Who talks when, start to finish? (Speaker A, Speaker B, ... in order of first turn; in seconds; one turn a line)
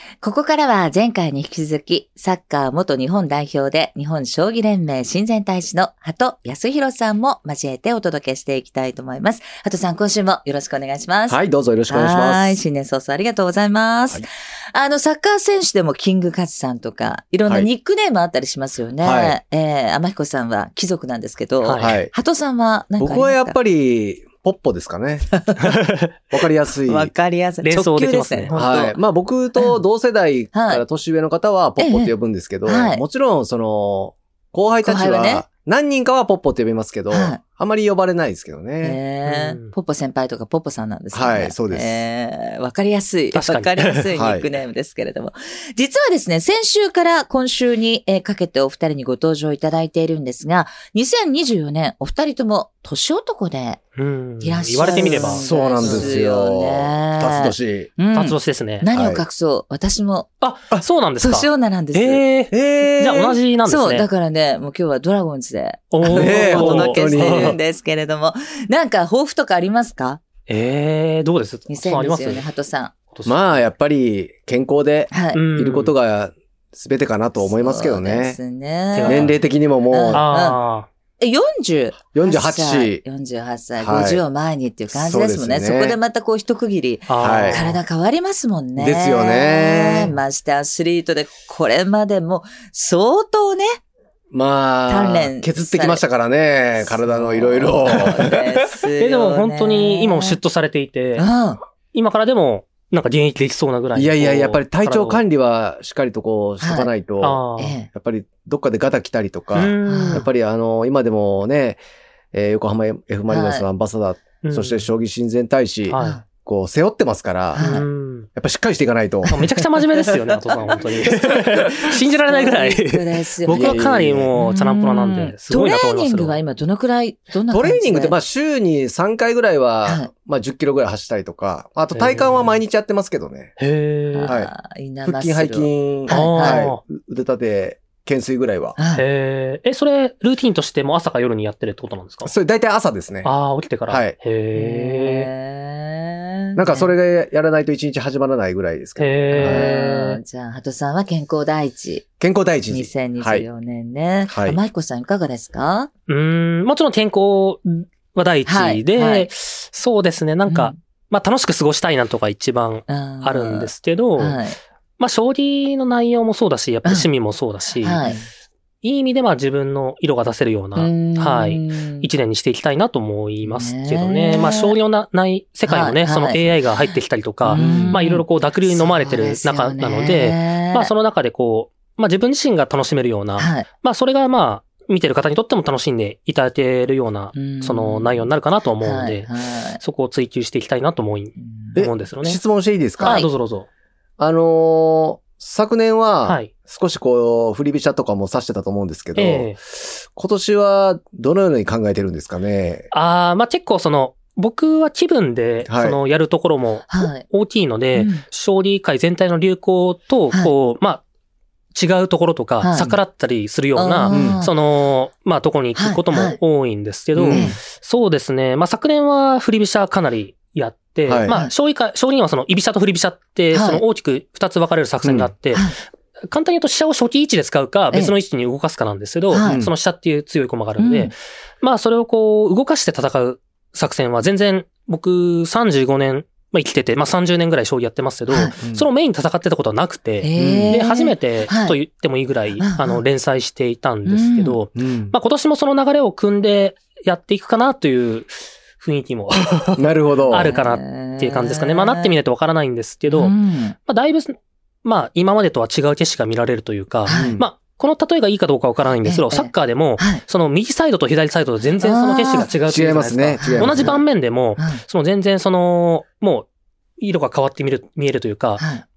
Speaker A: 0.2-23.6
Speaker B: 11.3-12.6
Speaker B: 19.0-19.4
Speaker C: 21.6-22.0
Speaker B: 21.8-22.1
Speaker B: 23.0-25.3
Speaker A: 25.3-25.8
Speaker C: 25.6-26.1
Speaker B: 26.3-27.1
Speaker A: 26.9-29.0
Speaker C: 27.6-28.9
Speaker B: 28.5-39.0
Speaker A: 29.6-29.8
Speaker A: 30.5-30.8
Speaker A: 31.8-32.1
Speaker A: 32.6-33.0
Speaker A: 34.8-35.5
Speaker A: 37.1-37.4
Speaker A: 38.8-53.8
Speaker C: 39.2-39.8
Speaker B: 41.1-42.0
Speaker C: 43.3-44.1
Speaker B: 44.1-44.5
Speaker C: 54.0-56.1
Speaker A: 54.4-60.3
Speaker B: 55.0-57.9
Speaker C: 58.1-58.9
Speaker B: 58.9-59.2
Speaker C: 60.4-64.1
Speaker A: 61.2-62.2
Speaker B: 62.5-63.4
Speaker A: 63.7-70.2
Speaker C: 65.9-67.6
Speaker B: 66.0-67.6
Speaker C: 70.5-72.5
Speaker A: 71.7-72.9
Speaker C: 73.1-73.6
Speaker B: 73.3-78.4
Speaker A: 75.1-75.4
Speaker C: 75.3-75.9
Speaker A: 77.4-79.3
Speaker C: 78.9-79.4
Speaker B: 79.0-80.3
Speaker A: 79.9-80.6
Speaker C: 80.1-80.9
Speaker A: 81.2-93.8
Speaker B: 82.1-83.0
Speaker B: 83.8-84.2
Speaker B: 84.9-86.0
Speaker C: 87.1-87.8
Speaker B: 87.2-87.7
Speaker B: 88.8-90.1
Speaker B: 94.3-98.4
Speaker A: 94.9-96.0
Speaker A: 96.8-100.4
Speaker C: 99.0-101.3
Speaker A: 101.2-101.6
Speaker C: 101.9-105.2
Speaker B: 104.0-107.4
Speaker A: 106.6-106.9
Speaker C: 107.2-107.8
Speaker A: 107.6-107.9
Speaker B: 107.9-111.8
Speaker C: 109.5-110.3
Speaker A: 109.9-110.3
Speaker B: 112.3-119.5
Speaker A: 113.3-113.7
Speaker C: 114.4-114.8
Speaker C: 115.9-116.2
Speaker A: 116.0-116.2
Speaker A: 117.5-117.8
Speaker C: 117.6-118.3
Speaker C: 119.3-126.4
Speaker A: 121.6-123.8
Speaker B: 123.5-124.3
Speaker A: 124.4-128.2
Speaker B: 127.5-133.6
Speaker C: 131.9-132.6
Speaker C: 133.6-134.3
Speaker A: 134.1-136.7
Speaker B: 134.3-134.5
Speaker B: 135.0-138.8
Speaker C: 136.1-136.8
Speaker A: 138.8-139.0
Speaker C: 138.9-142.3
Speaker B: 142.2-143.3
Speaker C: 143.2-145.3
Speaker B: 143.9-144.2
Speaker A: 144.5-146.9
Speaker B: 146.6-149.7
Speaker C: 149.0-150.2
Speaker A: 149.3-152.1
Speaker B: 152.2-153.5
Speaker A: 152.7-155.9
Speaker B: 154.3-154.6
Speaker C: 156.1-164.4
Speaker A: 158.5-159.3
Speaker A: 160.5-160.8
Speaker A: 162.9-164.6
Speaker C: 165.0-168.0
Speaker A: 167.8-168.2
Speaker C: 168.8-192.4
Speaker A: 170.8-172.1
Speaker A: 173.4-174.8
Speaker A: 175.7-176.6
Speaker B: 177.5-178.0
Speaker A: 177.5-180.9
Speaker A: 183.4-183.7
Speaker A: 187.3-189.8
Speaker A: 191.4-191.8
Speaker B: 191.8-193.2
Speaker A: 193.0-193.3
Speaker C: 193.0-193.7
Speaker B: 194.2-202.9
Speaker C: 196.2-196.5
Speaker C: 199.2-199.6
Speaker C: 202.9-211.0
Speaker B: 205.7-206.0
Speaker A: 206.9-207.2
Speaker A: 207.9-208.2
Speaker C: 211.7-225.7
Speaker A: 212.6-213.0
Speaker A: 213.8-214.5
Speaker B: 214.1-214.4
Speaker A: 215.8-216.4
Speaker B: 217.2-217.5
Speaker A: 217.3-217.6
Speaker B: 221.1-221.3
Speaker A: 223.5-223.8
Speaker B: 225.0-225.3
Speaker C: 226.3-253.3
Speaker A: 229.3-229.7
Speaker B: 229.4-229.7
Speaker A: 230.8-231.2
Speaker A: 238.3-238.6
Speaker B: 238.6-238.9
Speaker A: 240.2-241.8
Speaker B: 240.4-240.8
Speaker A: 242.6-243.0
Speaker A: 244.1-244.6
Speaker B: 244.8-245.1
Speaker B: 249.8-250.5
Speaker A: 250.3-252.1
Speaker A: 253.1-253.8
Speaker C: 253.9-266.5
Speaker A: 257.1-257.4
Speaker B: 257.1-257.5
Speaker A: 259.1-260.2
Speaker A: 261.8-262.5
Speaker B: 262.7-264.0
Speaker A: 263.4-264.0
Speaker A: 264.6-264.8
Speaker C: 267.0-268.6
Speaker A: 268.6-268.9